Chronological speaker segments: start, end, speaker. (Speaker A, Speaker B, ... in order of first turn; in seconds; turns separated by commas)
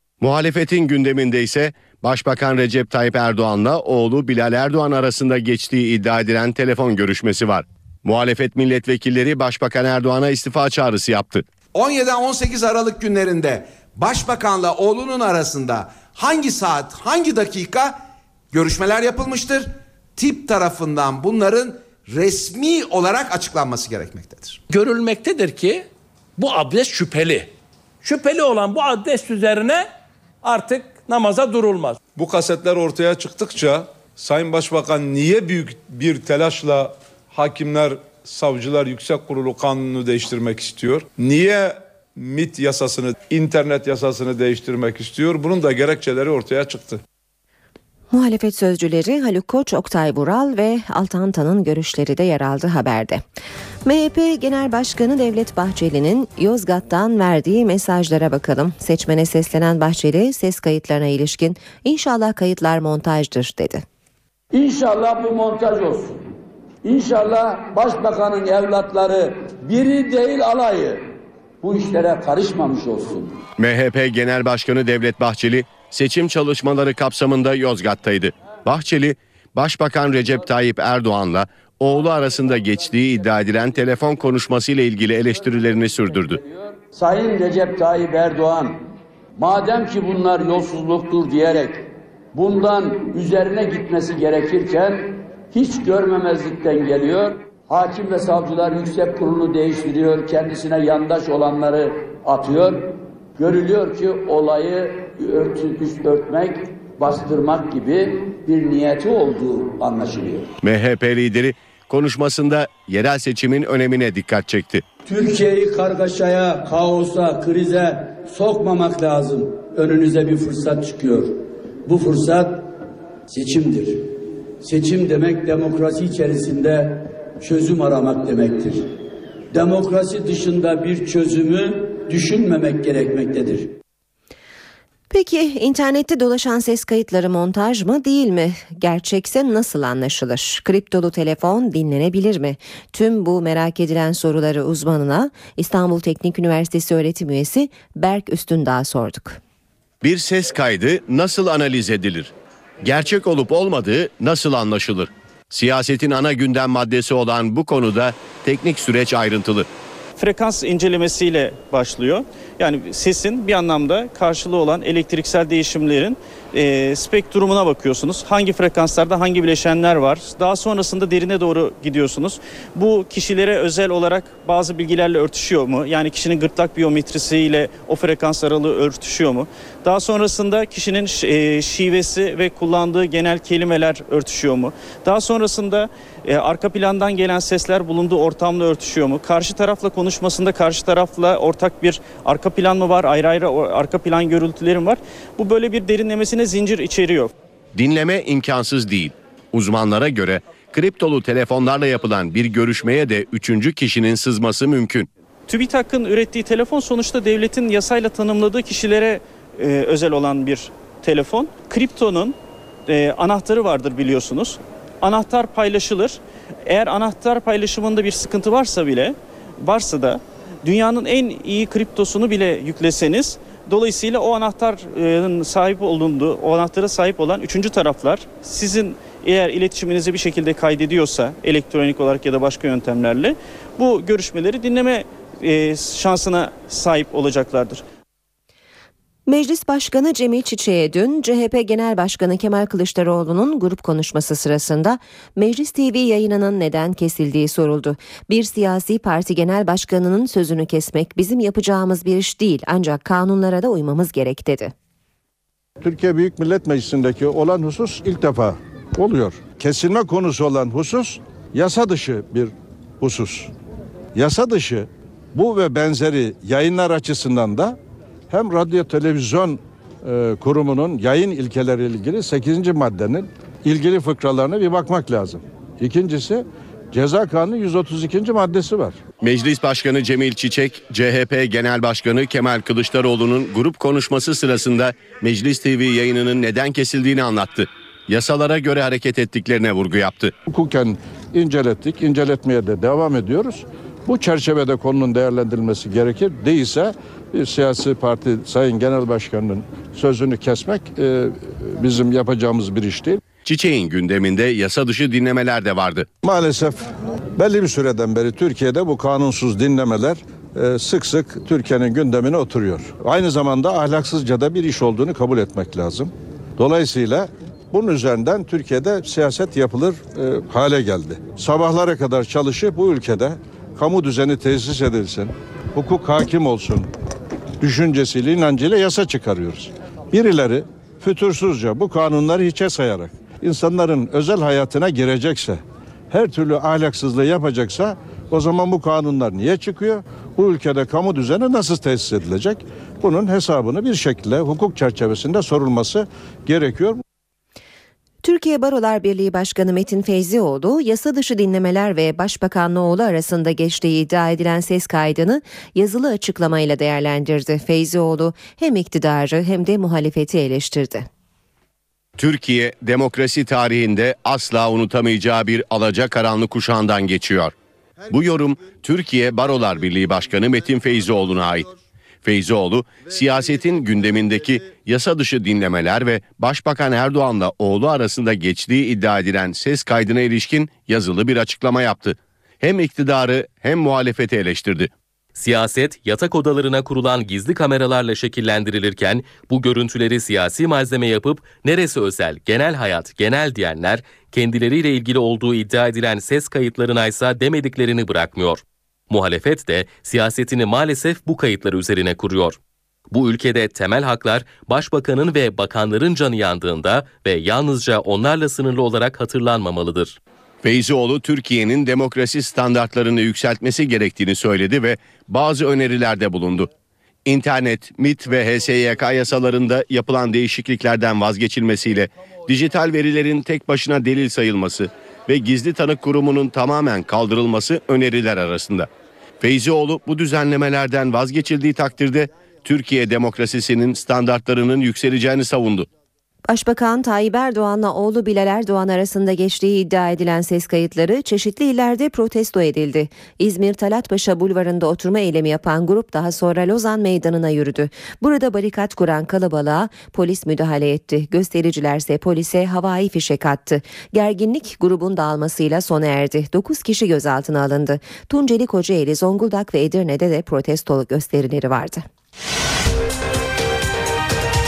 Speaker A: 0.2-11.5, Speaker B: 11.7-18.0, Speaker B: 18.5-24.6, Speaker C: 24.7-27.5, Speaker C: 28.0-29.9, Speaker C: 30.4-32.0, Speaker D: 32.2-47.0, Speaker E: 48.1-53.2, Speaker E: 53.9-63.8, Speaker F: 64.5-66.2, Speaker F: 66.8-71.0, Speaker F: 71.6-73.4, Speaker A: 73.6-86.4, Speaker F: 86.9-88.8, Speaker F: 89.4-110.5, Speaker A: 110.6-114.8, Speaker F: 115.0-122.7, Speaker F: 123.3-128.9, Speaker F: 129.5-133.8, Speaker E: 135.1-149.4, Speaker A: 150.0-159.7, Speaker G: 160.2-197.3, Speaker A: 197.8-205.1, Speaker G: 205.5-212.4, Speaker G: 212.9-237.8, Speaker E: 239.3-254.7, Speaker H: 255.8-263.5, Speaker H: 264.1-267.8, Speaker H: 268.3-279.0, Speaker A: 279.2-290.3, Speaker H: 290.5-303.2, Speaker A: 303.4-306.1, Speaker H: 306.2-326.9, Speaker H: 327.6-347.0, Speaker E: 348.2-361.1, Speaker A: 362.2-367.5, Speaker A: 368.1-371.7, Speaker A: 372.2-384.9, Speaker I: 385.4-402.6, Speaker I: 403.1-410.2, Speaker A: 410.6-416.7, Speaker A: 417.2-428.9, Speaker A: 429.4-435.9, Speaker E: 436.5-462.1